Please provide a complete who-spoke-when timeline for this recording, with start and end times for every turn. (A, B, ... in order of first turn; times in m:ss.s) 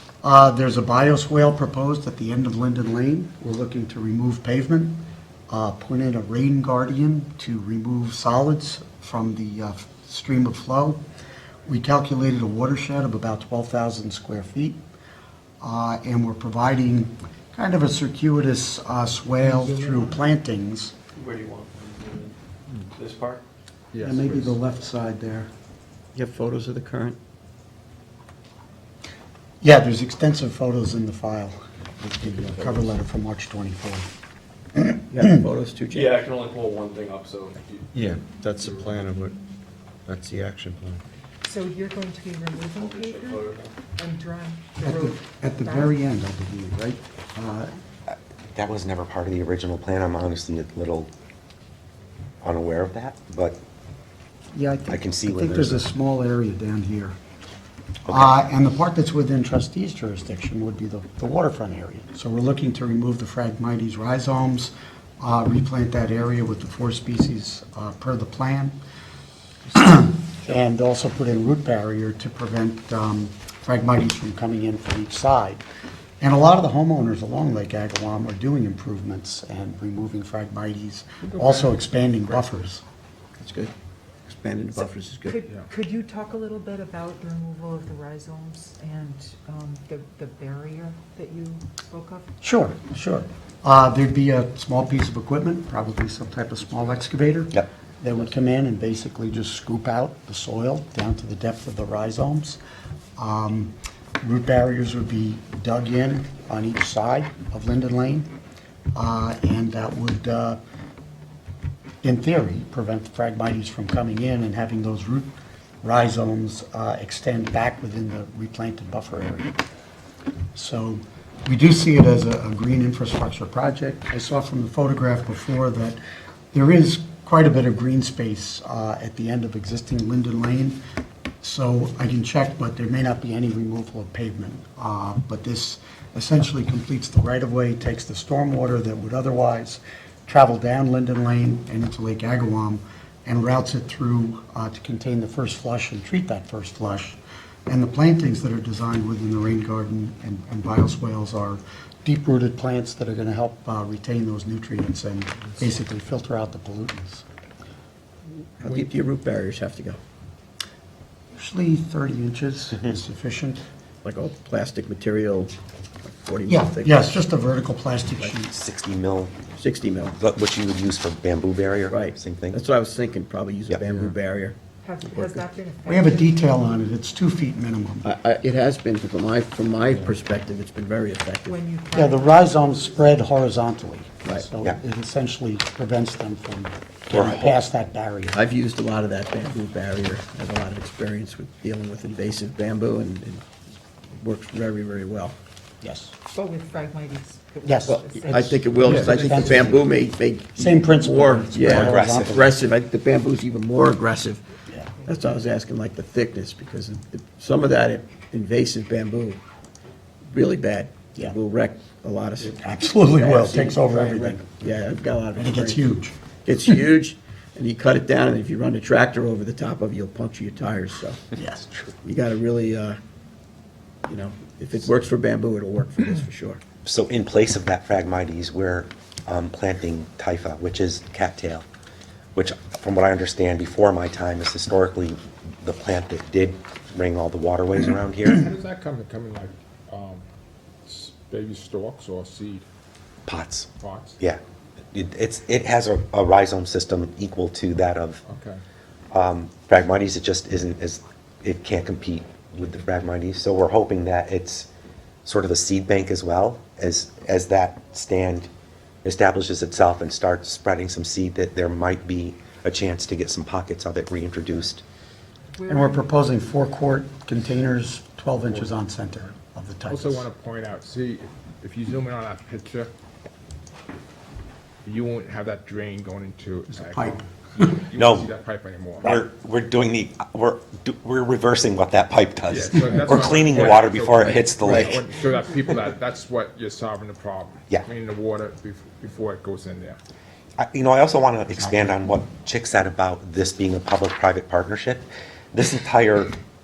0:00.2-0:11.0 A
0:11.7-0:14.8 A
0:15.6-0:20.9 A
0:21.2-0:22.3 B
0:23.0-0:23.4 B
0:23.9-0:24.6 C
0:24.0-0:25.5 A
0:26.1-0:27.2 D
0:29.6-0:34.1 A
0:35.1-0:36.2 D
0:35.9-0:37.9 B
0:37.9-0:39.3 E
0:38.6-0:38.9 B
0:40.1-0:41.0 E
0:41.4-0:46.0 F
0:42.8-0:43.7 B
0:44.8-0:47.7 A
0:48.1-0:51.1 G
0:52.4-0:53.6 G
0:54.5-0:57.2 A
0:54.9-0:55.8 G
0:58.1-0:58.3 G
0:58.1-1:08.8 A
1:09.7-1:15.6 A
1:16.2-1:22.8 A
1:21.2-1:22.4 C
1:23.4-1:23.7 D
1:24.3-1:25.4 D
1:25.2-1:32.3 F
1:32.4-1:42.6 A
1:43.2-1:48.3 A
1:48.9-1:50.6 A
1:52.0-1:59.6 A
2:00.5-2:06.0 A
2:06.5-2:10.8 A
2:11.4-2:37.2 A
2:38.6-2:40.0 D
2:38.6-2:38.9 C
2:41.4-2:43.6 A
2:44.0-2:45.5 D
2:46.0-2:47.1 D
2:46.5-2:48.5 A
2:48.5-2:49.3 G
2:49.6-2:50.2 D
2:50.2-2:52.6 G
2:51.9-2:55.4 D
2:53.7-2:54.1 G
2:54.8-2:56.4 F
2:55.8-2:58.1 A
2:58.0-3:01.6 D
3:01.4-3:02.8 F
3:01.9-3:08.4 A
3:07.1-3:07.4 G
3:07.2-3:07.5 D
3:08.3-3:13.4 D
3:14.1-3:15.3 D
3:15.8-3:16.1 A
3:16.3-3:19.7 F
3:17.6-3:18.0 A
3:17.9-3:24.4 D
3:18.8-3:19.9 A
3:18.8-3:19.2 C
3:20.6-3:22.4 A
3:21.6-3:22.5 G
3:25.0-3:29.4 D
3:30.3-3:35.9 D
3:32.6-3:34.6 A
3:35.4-3:36.1 A
3:36.4-3:41.3 D
3:41.3-3:41.7 A
3:42.0-3:43.0 D
3:44.1-3:46.6 D
3:46.8-3:51.6 G
3:52.3-3:58.4 G
3:58.2-4:00.2 C
4:00.8-4:02.6 C
4:03.3-4:03.7 G
4:03.8-4:04.2 C
4:04.9-4:08.2 G
4:08.2-4:08.6 C
4:09.1-4:14.7 G
4:15.2-4:18.5 G
4:19.0-4:24.8 G
4:25.6-4:26.2 F
4:25.7-4:30.3 A
4:29.9-4:32.9 C
4:34.8-4:39.2 C
4:36.7-4:37.7 A
4:38.0-4:38.3 G
4:39.0-4:45.0 G
4:42.5-4:50.0 C
4:44.6-4:45.0 D
4:50.6-4:56.3 G
4:51.7-4:51.9 A